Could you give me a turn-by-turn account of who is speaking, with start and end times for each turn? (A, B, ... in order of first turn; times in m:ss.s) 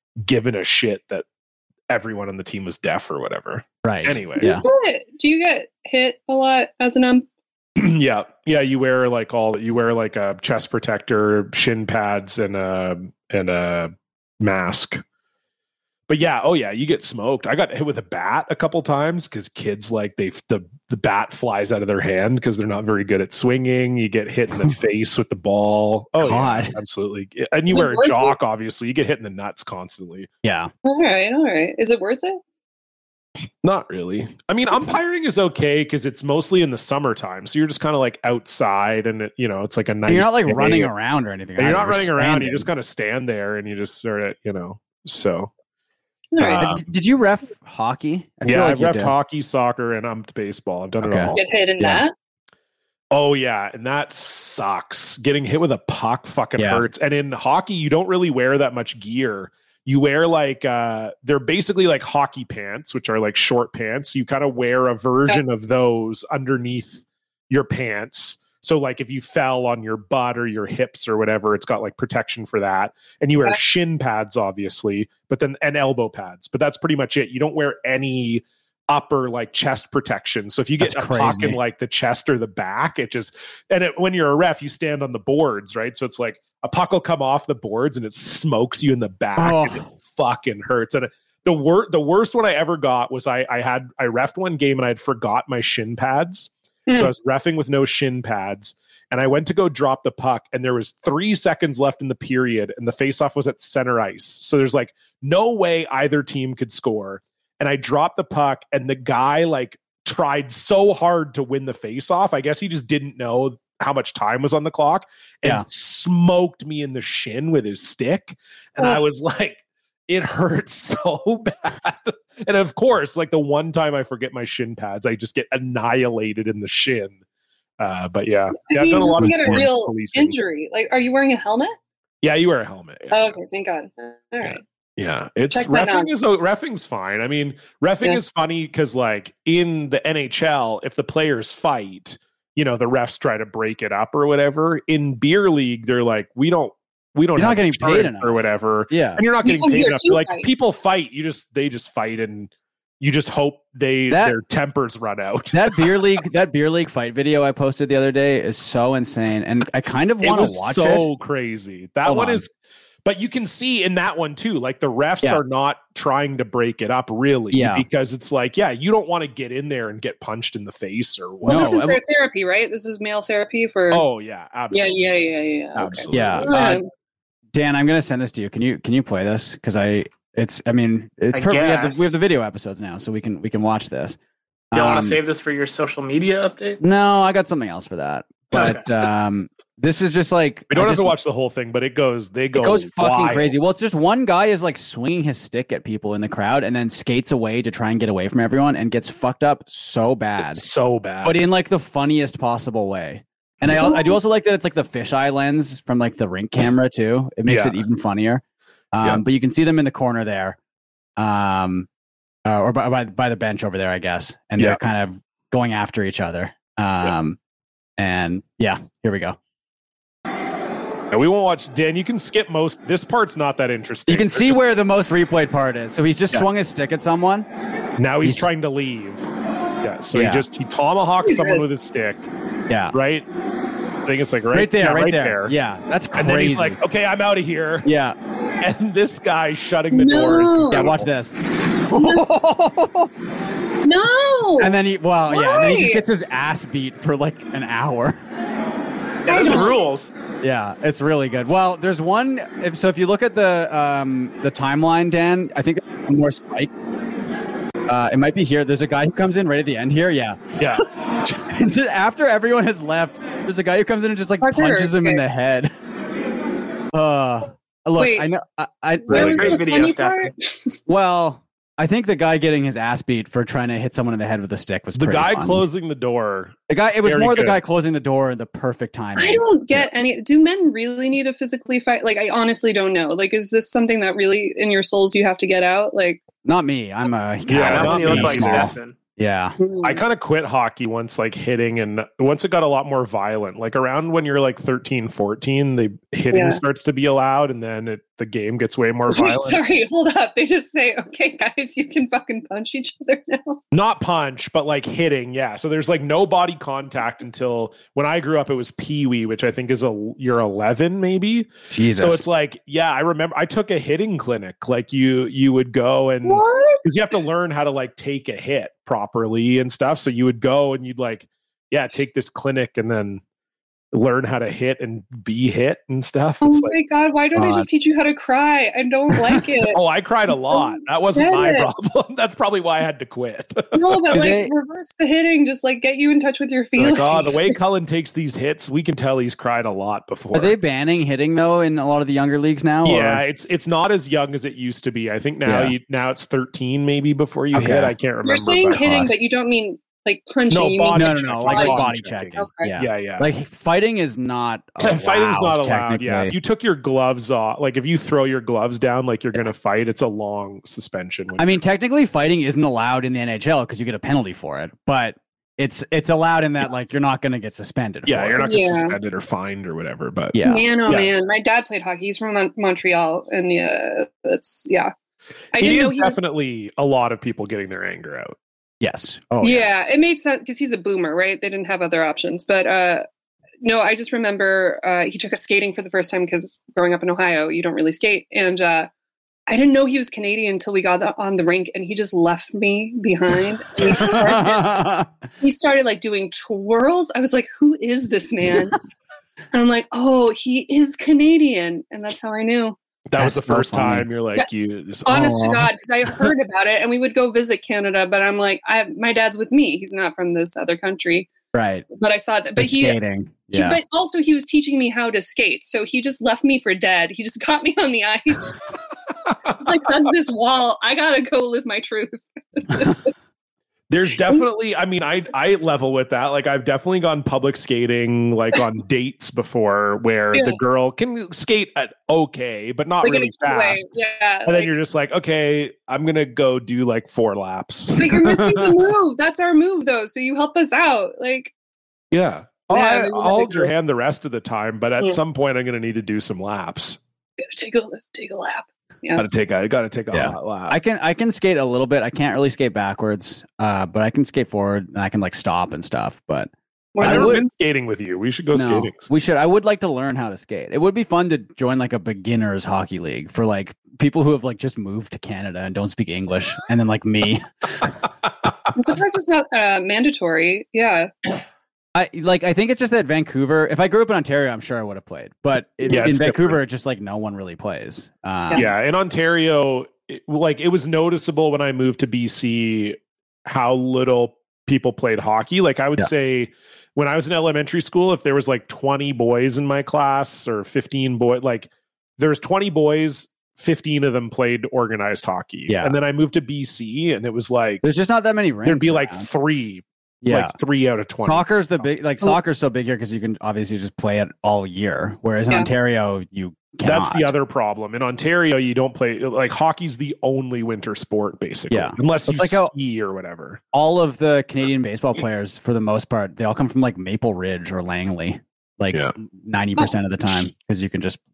0:00.2-0:01.2 A
0:01.9-0:04.6 A
0:03.8-0:04.6 B
0:04.4-0:07.2 C
0:07.8-0:15.0 A
0:16.1-0:30.3 A
0:26.2-0:26.7 B
0:27.7-0:28.4 C
0:30.4-0:30.7 B
0:30.8-0:32.4 C
0:33.6-0:40.9 A
0:40.0-0:42.7 B
0:41.6-0:45.5 A
0:46.3-0:46.7 C
0:46.4-0:46.8 A
0:46.4-0:49.1 B
0:48.4-0:51.4 A
0:51.0-0:52.0 B
0:51.3-0:52.1 C
0:53.1-2:07.2 A
0:56.6-0:56.8 B
1:20.8-1:21.6 B
1:29.4-1:29.8 B
2:07.8-2:10.4 A
2:08.7-2:11.8 C
2:09.2-2:09.7 B
2:12.2-2:13.4 A
2:13.1-2:14.6 C
2:14.4-2:35.9 A
2:15.5-2:16.1 C
2:27.4-2:29.2 B
2:29.4-2:30.5 C
2:34.1-2:34.4 B
2:35.5-2:41.1 B
2:40.2-2:42.5 A
2:42.0-2:42.4 B
2:43.0-2:51.8 A
2:47.5-2:47.8 B
2:51.4-2:52.0 B
2:51.4-2:54.0 C
2:53.9-2:55.0 A
2:54.7-2:56.9 C
2:55.7-2:56.6 A
2:56.1-2:56.8 B
2:57.5-3:04.2 B
3:01.3-3:02.1 D
3:04.7-3:05.2 B
3:04.7-3:06.8 D
3:06.8-3:11.1 B
3:08.5-3:08.8 D
3:10.7-3:13.5 A
3:12.5-3:20.6 B
3:20.4-3:21.4 A
3:21.2-3:30.6 B
3:23.6-3:23.9 A
3:27.4-3:27.8 A
3:31.2-3:31.9 B
3:32.4-3:37.4 B
3:38.0-3:39.4 B
3:41.1-3:44.6 A
3:44.1-3:47.5 B
3:48.0-3:49.3 A
3:48.2-3:48.5 B
3:49.8-3:52.3 A
3:50.1-3:50.4 B
3:51.2-3:51.6 C
3:52.7-3:52.9 B
3:52.9-3:53.3 A
3:54.0-3:55.5 A
3:54.5-3:56.8 B
3:56.2-3:57.9 A
3:57.8-3:58.2 B
3:58.6-4:01.1 A
3:59.9-4:00.9 C
4:00.7-4:03.1 B
4:01.9-4:02.2 C
4:03.8-4:04.8 C
4:04.6-4:08.2 B
4:05.3-4:06.0 C
4:09.2-4:10.1 D
4:09.3-4:09.8 C
4:10.4-4:16.7 B
4:17.9-4:25.7 B
4:20.6-4:20.8 A
4:24.4-4:25.2 C
4:26.9-4:29.6 B
4:28.0-4:28.3 C
4:29.1-4:30.5 C
4:29.1-4:29.5 A
4:29.2-4:30.3 D
4:30.9-4:35.6 B
4:35.0-4:37.6 A
4:36.7-4:39.8 B
4:39.2-4:46.2 C
4:46.4-4:49.6 B
4:47.5-4:48.7 A
4:47.5-4:49.0 D
4:49.6-4:50.0 C
4:49.8-4:59.6 A
4:56.3-4:56.6 C
4:59.1-5:03.6 C
5:03.7-5:23.2 A
5:11.7-5:12.2 B
5:16.2-5:16.8 C
5:23.9-5:26.7 A
5:26.4-5:29.8 C
5:27.3-5:27.7 B
5:29.7-5:34.3 A
5:30.5-5:31.7 C
5:33.7-5:37.5 C
5:34.1-5:34.5 B
5:36.8-5:40.5 A
5:40.3-5:43.2 B
5:42.8-5:49.0 A
5:45.4-5:45.7 B
5:47.5-5:48.0 B
5:48.2-5:52.7 C
5:48.8-5:49.1 B
5:50.5-5:53.3 A
5:50.9-5:56.3 B
5:54.8-6:01.6 A
6:01.4-6:08.4 B
6:08.0-6:10.4 A
6:08.4-6:09.0 C
6:10.3-6:10.6 B
6:10.4-6:14.9 C
6:15.5-6:16.2 C
6:15.6-6:18.4 A
6:18.8-6:19.7 B
6:19.4-6:23.0 C
6:23.6-6:28.9 C
6:29.5-6:34.7 C
6:33.8-6:35.1 B
6:35.4-6:38.8 C
6:39.5-6:42.8 C
6:43.1-6:45.4 A
6:43.2-6:44.1 B
6:45.0-6:51.3 C
6:45.1-6:45.6 B
6:51.5-6:51.8 B
6:51.9-6:53.0 C
6:52.6-6:53.8 B
6:53.5-6:58.6 C
6:59.6-7:03.1 C
7:03.9-7:13.9 A
7:10.3-7:10.6 C
7:13.0-7:14.7 C
7:14.4-7:18.5 A
7:18.0-7:21.5 C
7:22.1-7:27.0 A
7:22.7-7:23.7 C
7:27.4-7:29.2 C
7:29.2-7:30.8 A
7:30.1-7:37.4 B
7:36.9-7:37.4 C
7:37.0-7:39.1 A
7:38.5-7:47.9 B
7:48.8-7:51.3 C
7:51.9-7:58.7 B
7:55.9-7:56.6 A
7:58.5-8:17.8 A
8:15.7-8:16.0 B
8:17.8-8:19.3 B
8:18.6-8:21.8 A
8:20.2-8:20.5 B
8:21.2-8:27.3 B
8:26.8-8:33.6 A
8:31.7-8:32.7 B
8:33.7-8:41.2 B